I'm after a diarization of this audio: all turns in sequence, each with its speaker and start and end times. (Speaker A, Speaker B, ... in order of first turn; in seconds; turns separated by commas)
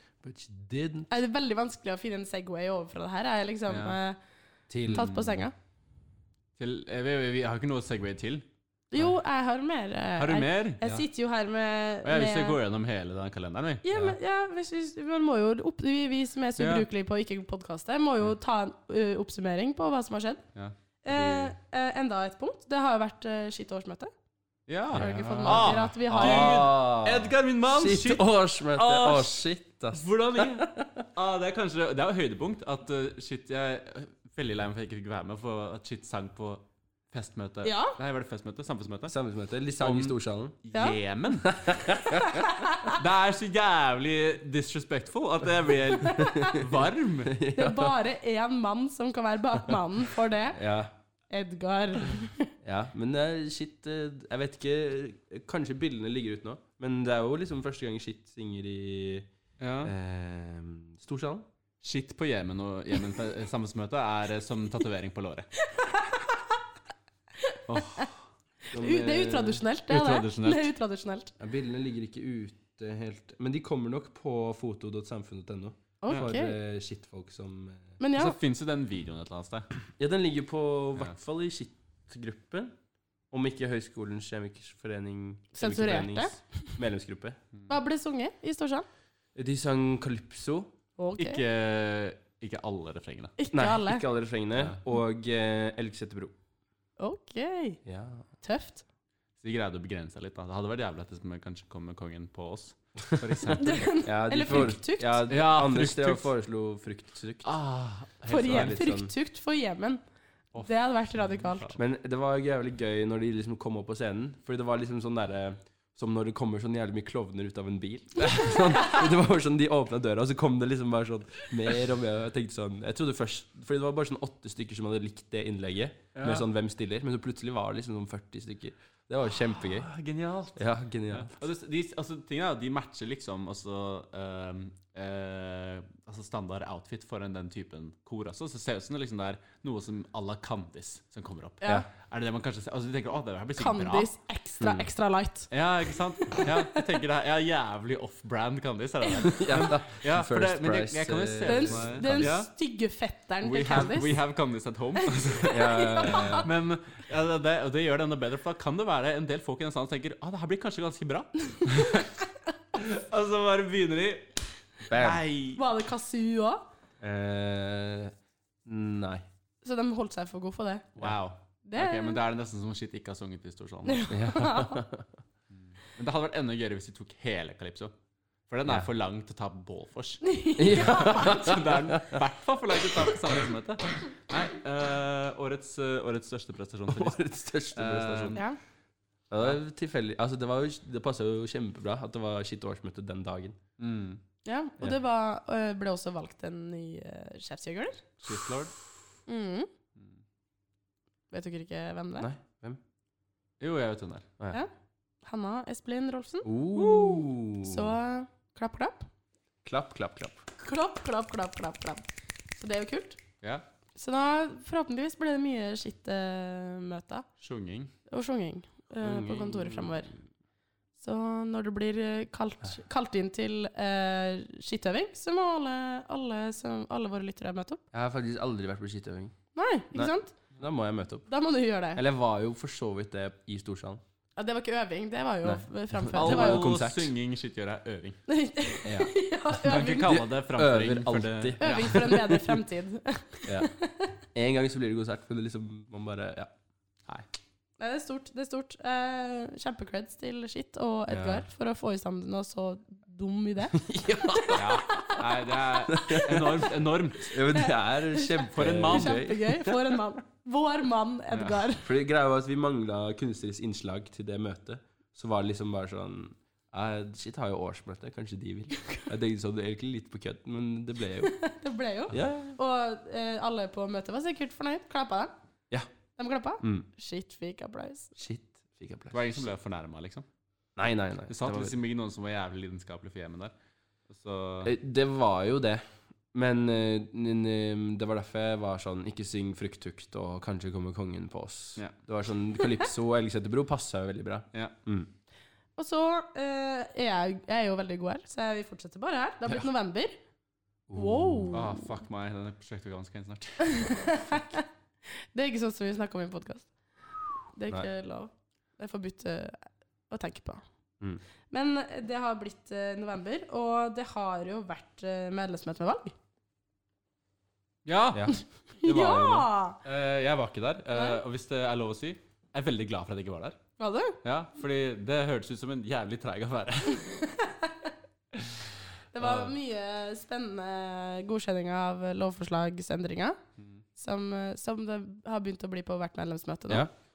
Speaker A: 0.2-1.1, Speaker B: 1.1-4.2, Speaker C: 3.7-4.0, Speaker A: 4.7-5.1, Speaker C: 4.9-5.3, Speaker B: 4.9-5.5, Speaker C: 6.6-8.5, Speaker B: 8.9-12.6, Speaker C: 10.2-11.0, Speaker C: 12.1-14.0, Speaker B: 13.8-20.4, Speaker C: 16.6-16.9, Speaker C: 20.6-21.5, Speaker B: 21.1-24.1, Speaker C: 24.7-39.1, Speaker B: 24.9-26.7, Speaker A: 24.9-31.1, Speaker B: 37.6-38.0, Speaker A: 39.1-40.6, Speaker C: 39.8-41.8, Speaker A: 41.5-42.3, Speaker B: 42.3-43.0, Speaker C: 42.8-47.4, Speaker B: 46.1-46.6, Speaker A: 47.3-48.0, Speaker B: 47.5-50.6, Speaker A: 50.5-50.9, Speaker B: 51.3-52.5, Speaker A: 52.6-59.3, Speaker C: 59.6-59.9, Speaker A: 59.8-61.5, Speaker C: 61.8-65.5, Speaker B: 65.7-66.6, Speaker B: 67.5-68.1, Speaker C: 67.7-68.1, Speaker B: 68.7-71.3, Speaker A: 68.7-69.6, Speaker C: 69.9-70.7, Speaker A: 71.4-78.0, Speaker B: 76.0-76.6, Speaker B: 78.0-78.4, Speaker C: 78.2-79.7, Speaker A: 80.0-82.7, Speaker A: 83.3-87.4, Speaker B: 85.5-86.7, Speaker B: 87.7-88.9, Speaker A: 89.3-90.7, Speaker B: 91.0-91.4, Speaker C: 91.2-93.3, Speaker B: 93.4-94.0, Speaker A: 93.5-96.3, Speaker B: 97.0-97.8, Speaker A: 97.8-98.2, Speaker B: 98.4-98.8, Speaker C: 99.4-104.0, Speaker B: 103.6-105.2, Speaker A: 104.0-107.5, Speaker C: 105.3-106.3, Speaker C: 107.4-108.8, Speaker B: 108.3-110.0, Speaker A: 108.3-109.1, Speaker C: 110.5-111.8, Speaker B: 110.6-111.7, Speaker A: 111.8-129.9, Speaker C: 126.2-126.5, Speaker C: 129.6-144.1, Speaker A: 130.6-131.4, Speaker B: 141.6-141.9, Speaker B: 143.6-145.5, Speaker A: 144.6-144.9, Speaker C: 145.5-152.5, Speaker B: 146.2-146.9, Speaker A: 149.3-152.4, Speaker B: 151.5-154.2, Speaker C: 153.4-162.1, Speaker B: 155.2-156.5, Speaker A: 155.5-156.5, Speaker C: 162.7-165.6, Speaker A: 164.9-165.2, Speaker B: 165.6-166.6, Speaker A: 167.0-169.2, Speaker B: 169.6-170.9, Speaker C: 171.0-174.1, Speaker B: 171.7-172.2, Speaker B: 173.9-174.8, Speaker A: 174.1-175.1, Speaker C: 175.6-177.9, Speaker C: 178.5-187.2, Speaker B: 180.2-181.4, Speaker A: 180.6-182.2, Speaker A: 186.9-188.4, Speaker C: 187.7-188.4, Speaker A: 189.3-193.6, Speaker C: 193.8-194.2, Speaker B: 194.4-198.0, Speaker C: 198.2-198.7, Speaker B: 199.3-199.7, Speaker B: 201.3-202.3, Speaker A: 202.2-202.8, Speaker C: 203.6-204.3, Speaker B: 205.2-209.1, Speaker A: 206.4-207.9, Speaker A: 209.7-210.4, Speaker B: 210.6-213.2, Speaker B: 214.0-217.3, Speaker C: 217.4-217.9, Speaker B: 218.1-220.1, Speaker A: 219.0-220.1, Speaker B: 221.0-227.8, Speaker A: 227.9-229.3, Speaker B: 229.5-230.3, Speaker A: 229.9-231.3, Speaker B: 231.3-232.0, Speaker A: 231.9-234.0, Speaker B: 234.4-236.7, Speaker A: 235.4-237.1, Speaker C: 236.1-238.2, Speaker B: 238.3-240.2, Speaker A: 238.8-239.2, Speaker C: 239.6-242.2, Speaker A: 240.0-242.6, Speaker B: 241.6-244.1, Speaker A: 243.4-243.7, Speaker A: 244.3-246.5, Speaker B: 247.8-255.2, Speaker A: 251.1-251.4, Speaker A: 253.7-254.8, Speaker C: 254.5-257.4, Speaker A: 255.9-256.6, Speaker B: 255.9-256.3, Speaker A: 257.3-259.9, Speaker B: 257.5-261.9, Speaker C: 258.5-259.3, Speaker C: 261.3-261.6, Speaker A: 261.8-271.3, Speaker B: 271.2-275.3, Speaker A: 272.1-272.6, Speaker B: 276.2-278.1, Speaker A: 276.6-276.9, Speaker A: 278.2-279.4, Speaker C: 279.1-280.2, Speaker A: 280.8-281.8, Speaker C: 281.3-283.5, Speaker C: 284.1-284.7, Speaker A: 284.6-295.1, Speaker B: 295.8-300.2, Speaker A: 300.9-301.6, Speaker B: 300.9-301.8, Speaker C: 301.5-304.2, Speaker B: 303.7-306.7, Speaker B: 307.6-310.6, Speaker B: 311.5-316.1, Speaker C: 317.9-318.3, Speaker A: 318.1-319.5, Speaker B: 318.8-319.8, Speaker C: 319.8-323.6, Speaker B: 320.9-321.2, Speaker B: 323.8-324.2, Speaker C: 324.2-327.1, Speaker B: 327.0-327.9, Speaker B: 329.1-333.4, Speaker C: 329.2-329.5, Speaker C: 333.6-333.8, Speaker B: 334.0-336.9